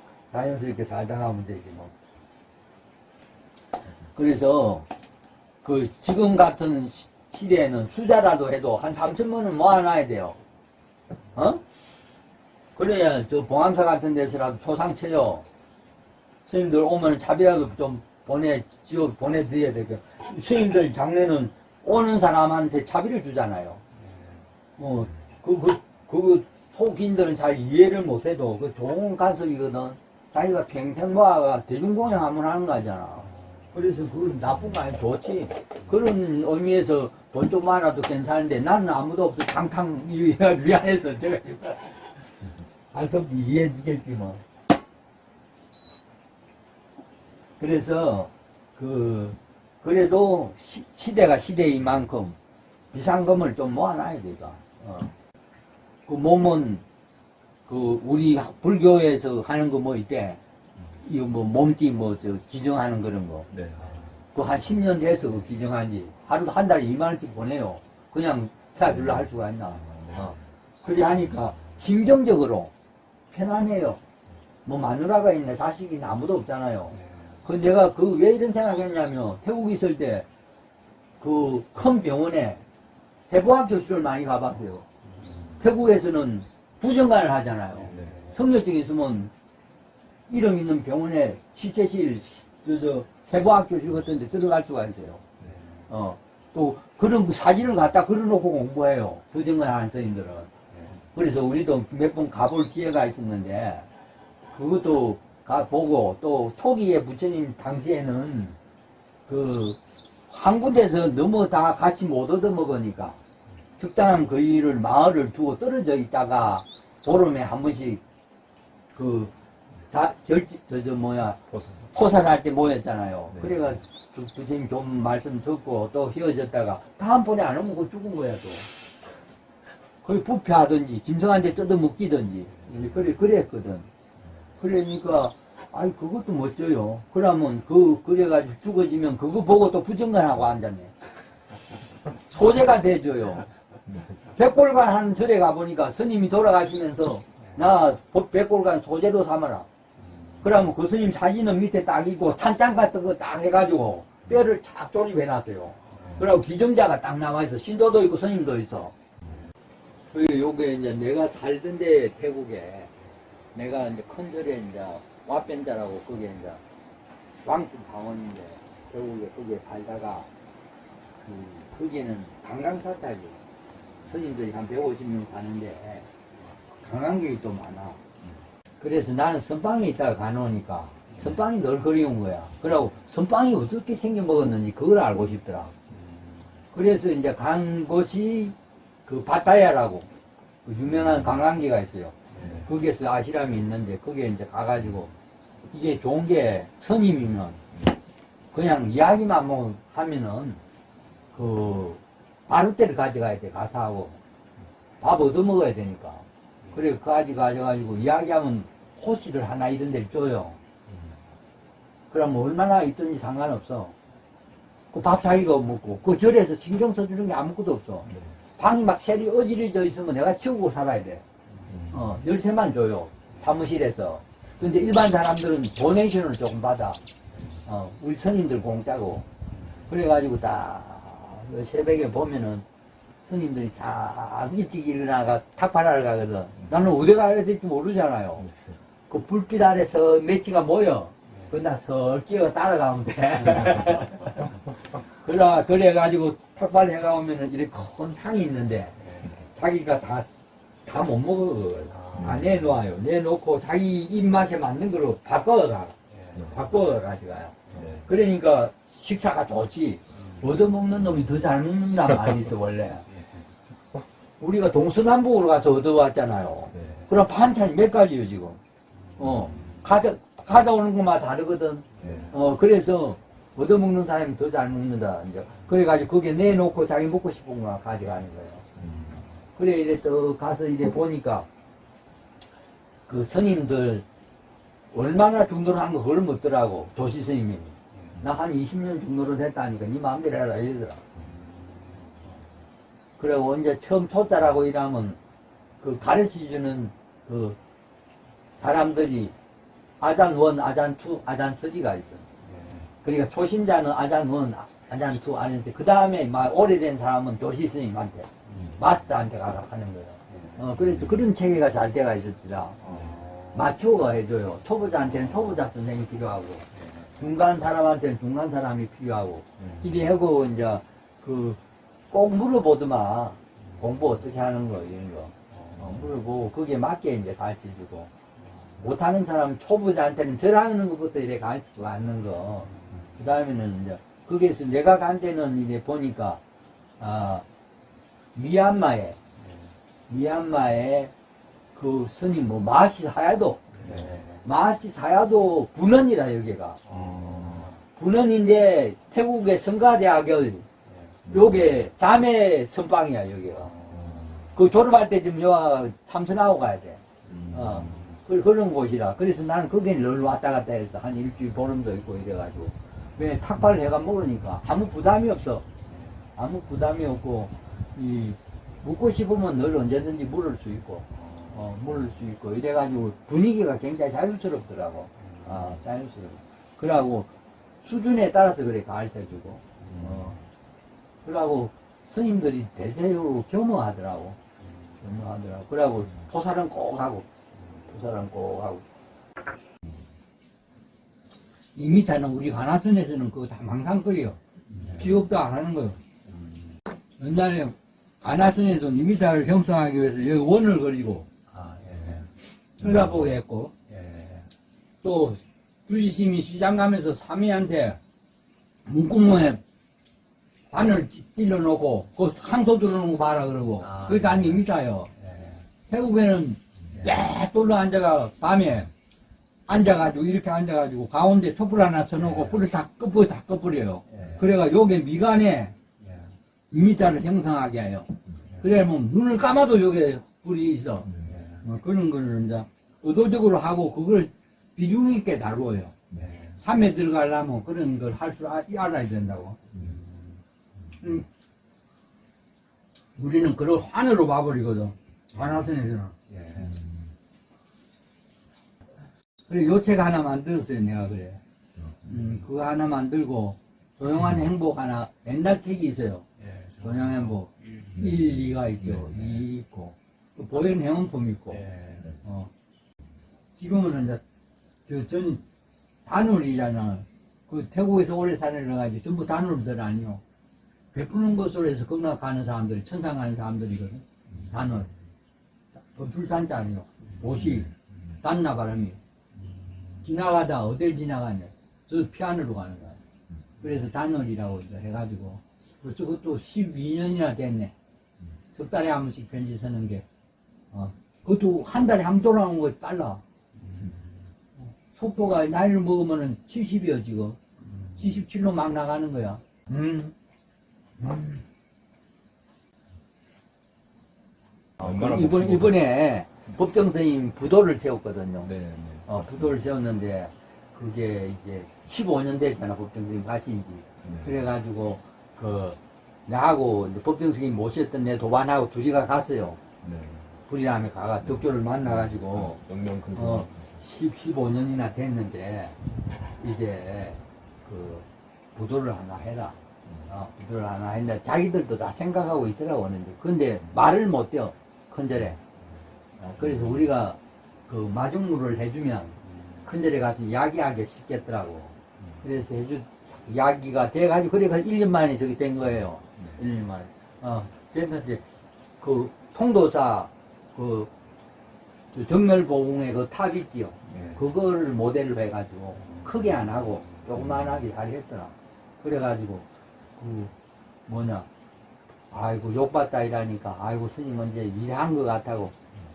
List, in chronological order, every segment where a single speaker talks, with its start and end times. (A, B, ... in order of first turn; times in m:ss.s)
0:00.3-0:01.9 A
0:04.1-0:04.9 A
0:05.6-0:10.4 A
0:11.3-0:11.6 A
0:12.8-0:15.4 A
0:16.5-0:23.8 A
0:23.9-0:24.5 B
0:24.8-0:42.1 A
0:33.2-0:33.7 B
0:42.9-0:44.4 A
0:47.6-0:52.4 A
0:52.9-0:55.1 A
0:56.1-0:56.8 A
0:57.6-1:00.4 A
1:01.0-1:03.5 A
1:03.5-1:04.2 C
1:03.8-1:04.1 B
1:04.3-1:12.7 A
1:08.8-1:10.4 C
1:13.3-1:14.0 A
1:14.6-1:20.3 A
1:16.9-1:17.4 B
1:21.2-1:22.6 A
1:23.3-1:24.8 A
1:25.6-1:29.3 A
1:27.8-1:28.4 B
1:27.9-1:28.2 C
1:30.3-1:35.2 A
1:35.4-1:35.8 B
1:35.9-1:40.5 A
1:40.7-1:41.0 B
1:41.1-1:43.9 A
1:44.5-1:48.6 A
1:49.3-1:53.2 A
1:53.8-1:58.0 A
1:58.9-1:59.3 A
1:59.9-2:08.7 A
2:01.5-2:01.9 C
2:03.3-2:03.6 C
2:10.0-2:13.9 A
2:14.6-2:20.9 A
2:22.3-2:23.5 A
2:24.3-2:29.7 A
2:30.0-2:30.4 B
2:30.4-2:38.9 A
2:35.9-2:36.2 B
2:36.0-2:36.2 C
2:40.1-2:42.9 A
2:43.5-2:46.6 A
2:47.4-2:50.3 A
2:51.2-2:53.4 A
2:54.1-2:56.1 A
2:56.7-2:58.0 A
2:58.8-3:05.7 A
3:05.9-3:06.4 B
3:06.7-3:08.5 A
3:09.0-3:10.1 A
3:10.6-3:15.1 A
3:11.0-3:11.3 C
3:12.3-3:12.6 B
3:12.4-3:12.7 C
3:15.7-3:17.6 A
3:18.5-3:20.6 A
3:21.3-3:24.2 A
3:25.0-3:30.6 A
3:32.1-3:33.9 A
3:34.9-3:41.2 A
3:38.1-3:38.4 C
3:41.7-3:42.1 C
3:41.9-3:47.0 A
3:47.6-3:49.3 A
3:49.9-3:52.6 A
3:53.2-3:58.5 A
3:58.4-3:58.8 C
3:59.1-4:04.4 A
4:01.3-4:01.5 B
4:05.2-4:09.0 A
4:09.0-4:09.3 B
4:09.5-4:10.3 A
4:10.8-4:23.1 A
4:11.9-4:12.4 B
4:12.1-4:12.7 C
4:16.1-4:16.5 B
4:16.3-4:16.6 C
4:17.7-4:18.0 B
4:17.7-4:18.1 C
4:23.1-4:23.4 B
4:24.4-4:28.6 A
4:26.7-4:27.0 C
4:29.2-4:38.6 A
4:29.4-4:29.7 C
4:29.4-4:29.8 B
4:31.9-4:32.3 B
4:32.0-4:32.3 C
4:38.8-4:39.2 C
4:39.6-4:41.5 A
4:43.1-4:44.0 A
4:44.9-4:51.0 A
4:47.9-4:48.2 B
4:51.3-4:52.4 B
4:53.2-4:55.2 A
4:55.8-4:57.6 A
4:58.6-4:59.3 A
5:00.0-5:02.2 A
5:02.4-5:02.9 B
5:03.0-5:12.8 A
5:08.5-5:08.7 B
5:10.3-5:10.6 B
5:10.7-5:11.1 C
5:12.8-5:13.7 B
5:12.8-5:13.2 C
5:13.5-5:28.1 A
5:16.7-5:17.1 B
5:19.6-5:19.9 B
5:25.5-5:26.0 B
5:28.4-5:28.7 B
5:28.8-5:36.4 A
5:32.7-5:33.1 B
5:37.0-5:37.4 A
5:38.3-5:39.2 A
5:39.4-5:39.7 B
5:40.1-5:41.1 A
5:41.7-5:46.8 A
5:43.7-5:44.4 B
5:46.8-5:47.8 B
5:46.9-5:47.7 C
5:47.9-5:50.7 A
5:50.8-5:51.2 B
5:51.2-5:51.8 C
5:51.3-5:53.7 A
5:53.6-5:54.4 B
5:53.9-5:54.3 C
5:54.5-6:05.6 A
5:57.3-5:58.0 C
5:57.8-5:58.0 B
6:05.9-6:06.2 B
6:06.4-6:17.3 A
6:11.1-6:11.6 B
6:15.2-6:15.5 B
6:17.8-6:20.4 A
6:19.8-6:20.0 B
6:19.9-6:20.3 C
6:21.2-6:24.4 A
6:24.6-6:24.9 B
6:25.0-6:27.3 A
6:27.9-6:28.8 A
6:31.7-6:36.0 A
6:34.8-6:35.1 C
6:37.2-6:41.3 A
6:41.5-6:42.3 B
6:42.8-6:43.7 A
6:43.9-6:44.4 B
6:45.0-6:48.0 A
6:48.8-6:49.6 A
6:50.7-6:55.1 A
6:53.8-6:54.6 B
6:55.2-6:55.6 B
6:55.9-6:58.9 A
6:59.7-7:05.7 A
7:04.1-7:04.4 B
7:06.0-7:06.3 B
7:06.7-7:11.1 A
7:11.0-7:11.4 C
7:11.2-7:11.6 B
7:11.6-7:15.9 A
7:16.1-7:16.6 B
7:16.6-7:19.6 A
7:19.8-7:20.4 B
7:21.0-7:21.2 A
7:23.2-7:26.1 A
7:26.3-7:26.7 B
7:26.6-7:27.1 C
7:29.5-7:31.4 A
7:31.7-7:32.4 C
7:32.0-7:36.2 A
7:36.4-7:38.0 B
7:36.8-7:41.6 A
7:37.9-7:39.4 C
7:41.5-7:42.1 B
7:42.2-7:42.5 A
7:43.5-7:44.2 A
7:44.9-7:45.4 A
7:46.0-7:50.2 A
7:50.9-7:54.9 A
7:55.9-7:57.7 A
7:57.4-7:57.7 C
7:58.2-7:59.0 A
8:00.0-8:03.0 A
8:03.6-8:07.7 A
8:08.5-8:10.0 A
8:10.7-8:13.2 A
8:14.7-8:17.4 A
8:18.0-8:20.1 A
8:21.0-8:21.4 A
8:24.8-8:25.8 C
8:24.8-8:28.5 A
8:28.4-8:29.6 C
8:29.0-8:39.6 A
8:34.0-8:34.4 C
8:39.8-8:40.4 C
8:40.5-8:42.6 A
8:41.8-8:43.7 C
8:43.1-8:45.8 A
8:46.4-8:49.6 A
8:49.8-8:50.1 C
8:50.1-8:55.4 A
8:56.2-9:08.2 A
8:56.4-8:56.8 C
9:08.8-9:10.9 A
9:11.9-9:20.3 A
9:13.9-9:14.2 C
9:17.2-9:17.5 C
9:20.9-9:21.3 A
9:22.1-9:25.5 A